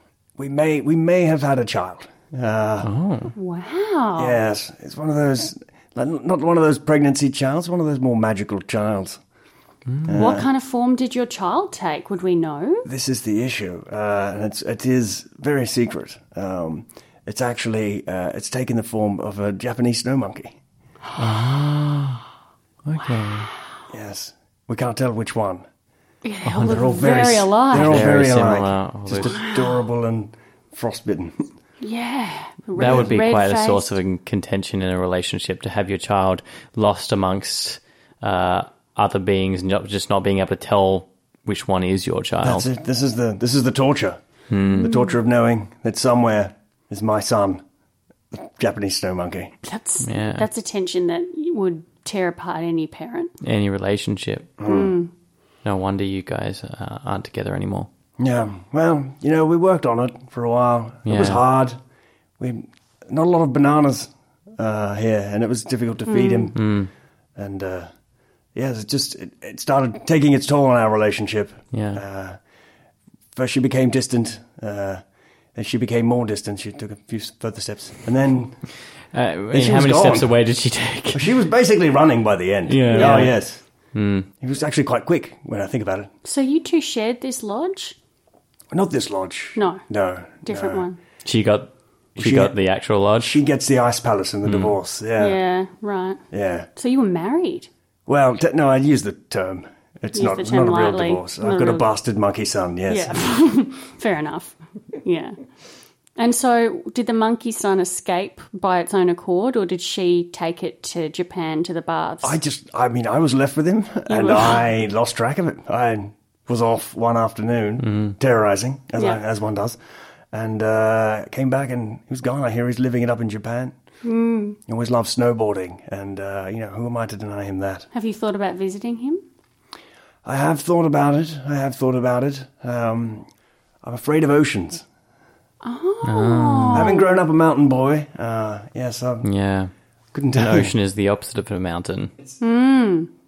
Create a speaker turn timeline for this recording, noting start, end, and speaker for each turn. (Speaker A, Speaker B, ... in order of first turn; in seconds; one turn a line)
Speaker A: 0.4-2.9
Speaker B: 2.8-3.3
Speaker C: 3.4-4.4
Speaker A: 4.2-9.2
Speaker B: 9.9-10.2
Speaker A: 10.1-10.5
Speaker C: 10.1-12.9
Speaker A: 12.8-20.6
Speaker B: 21.2-22.2
Speaker B: 22.9-23.5
Speaker C: 23.0-23.3
Speaker A: 23.9-25.7
Speaker C: 26.2-28.1
Speaker B: 26.4-27.0
Speaker A: 26.6-31.4
Speaker B: 27.7-29.4
Speaker C: 29.3-29.8
Speaker C: 31.8-33.9
Speaker B: 32.8-42.7
Speaker A: 32.8-33.2
Speaker A: 42.4-44.2
Speaker B: 44.5-45.0
Speaker A: 44.8-47.6
Speaker A: 48.3-49.5
Speaker C: 49.6-53.3
Speaker B: 50.0-50.5
Speaker B: 53.4-54.5
Speaker A: 54.6-55.0
Speaker C: 54.7-55.1
Speaker B: 55.6-57.9
Speaker A: 58.2-61.8
Speaker B: 61.1-61.4
Speaker A: 62.4-66.6
Speaker C: 66.1-66.5
Speaker B: 66.5-66.9
Speaker A: 67.4-67.9
Speaker A: 68.5-72.4
Speaker B: 71.7-72.0
Speaker A: 73.3-75.0
Speaker A: 75.5-78.6
Speaker B: 79.1-81.3
Speaker A: 79.5-80.3
Speaker A: 81.1-83.6
Speaker B: 82.7-83.4
Speaker C: 82.9-83.3
Speaker B: 83.9-84.3
Speaker A: 84.4-86.1
Speaker C: 86.2-88.0
Speaker A: 88.7-90.8
Speaker C: 89.6-89.8
Speaker C: 90.5-91.0
Speaker B: 91.2-93.4
Speaker A: 92.2-92.5
Speaker A: 93.2-95.4
Speaker B: 94.5-94.8
Speaker C: 95.2-96.2
Speaker A: 96.3-96.7
Speaker C: 96.8-97.7
Speaker A: 98.1-103.2
Speaker C: 100.1-101.9
Speaker C: 102.9-105.4
Speaker C: 106.2-112.4
Speaker A: 112.2-119.8
Speaker C: 114.1-114.6
Speaker B: 117.8-118.2
Speaker A: 120.3-123.7
Speaker C: 124.0-124.6
Speaker A: 124.7-127.9
Speaker C: 127.9-129.2
Speaker A: 130.2-133.3
Speaker A: 133.8-134.8
Speaker C: 135.6-137.2
Speaker B: 136.0-136.9
Speaker A: 136.7-139.3
Speaker B: 139.2-139.7
Speaker A: 140.1-140.7
Speaker B: 140.4-142.1
Speaker C: 142.4-143.1